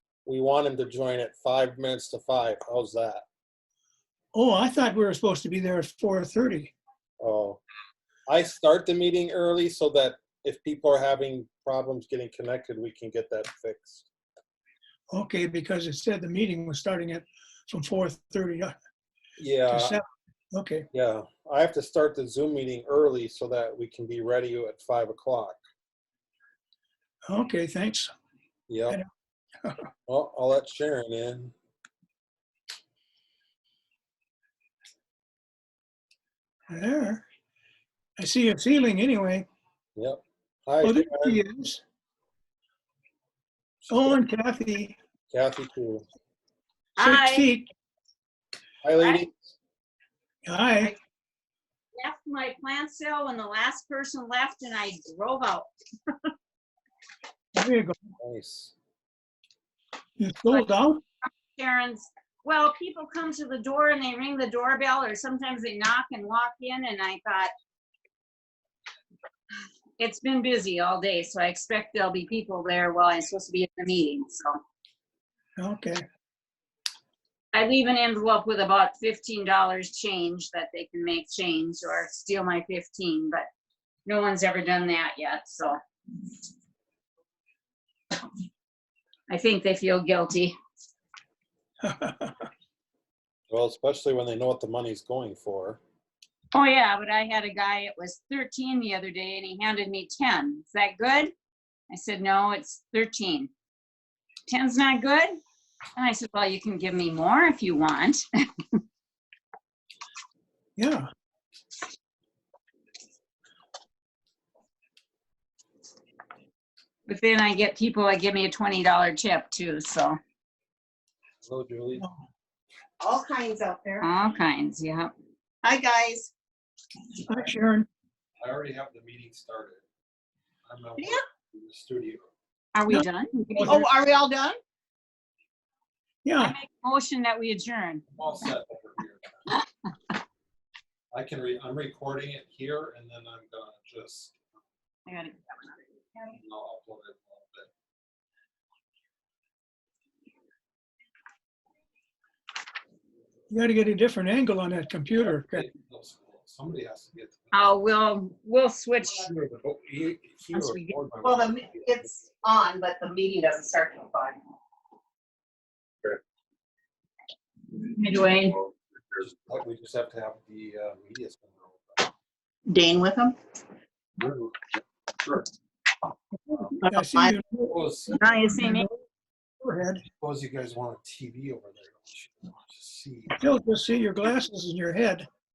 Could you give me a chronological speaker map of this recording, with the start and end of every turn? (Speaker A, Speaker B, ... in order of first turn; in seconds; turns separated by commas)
Speaker A: 0.2-3.2, Speaker B: 4.3-6.7, Speaker A: 7.2-7.6, Speaker A: 8.3-14.1, Speaker B: 15.1-18.7, Speaker A: 19.4-20.0, Speaker B: 19.7-20.9, Speaker A: 20.9-25.6, Speaker B: 27.2-28.1, Speaker A: 28.7-29.0, Speaker A: 30.1-31.5, Speaker B: 36.7-37.2, Speaker B: 38.2-39.5, Speaker A: 40.0-41.4, Speaker B: 40.8-41.8, Speaker A: 43.8-44.2, Speaker B: 43.9-44.9, Speaker A: 45.3-46.0, Speaker C: 47.0-47.5, Speaker B: 47.0-47.7, Speaker A: 48.8-49.5, Speaker C: 49.0-49.2, Speaker B: 50.4-50.9, Speaker C: 52.0-55.7, Speaker B: 57.5-58.0, Speaker A: 58.2-58.7, Speaker B: 60.2-61.0, Speaker C: 61.5-67.5, Speaker C: 70.0-74.5, Speaker B: 75.6-76.0, Speaker C: 77.5-83.5, Speaker C: 84.0-85.8, Speaker C: 89.3-90.5, Speaker B: 91.8-92.5, Speaker A: 93.5-95.8, Speaker C: 96.5-101.3, Speaker C: 101.9-103.5, Speaker C: 104.5-105.3, Speaker C: 106.0-108.2, Speaker B: 110.8-111.1, Speaker C: 117.1-120.2, Speaker A: 121.4-122.0, Speaker B: 122.0-122.2, Speaker D: 123.0-124.1, Speaker C: 124.0-125.1, Speaker D: 125.6-126.3, Speaker B: 127.3-127.9, Speaker A: 128.4-129.8, Speaker A: 130.6-132.3, Speaker C: 132.7-133.8, Speaker B: 133.6-133.8, Speaker D: 133.6-134.6, Speaker B: 136.2-136.5, Speaker C: 136.4-138.0, Speaker A: 138.1-139.5, Speaker A: 141.1-144.4, Speaker C: 145.1-145.8, Speaker A: 146.3-147.7, Speaker B: 153.5-155.7, Speaker A: 155.2-157.7, Speaker C: 157.5-159.3, Speaker A: 159.0-162.0, Speaker C: 160.5-160.9, Speaker D: 161.2-164.4, Speaker C: 167.7-168.6, Speaker A: 169.1-172.1, Speaker D: 172.7-173.3, Speaker A: 174.2-175.5, Speaker B: 176.5-177.8, Speaker D: 176.8-177.3, Speaker A: 177.7-178.2, Speaker C: 178.1-178.9, Speaker B: 178.5-179.0, Speaker B: 179.6-180.0, Speaker A: 180.2-183.4, Speaker B: 183.3-185.2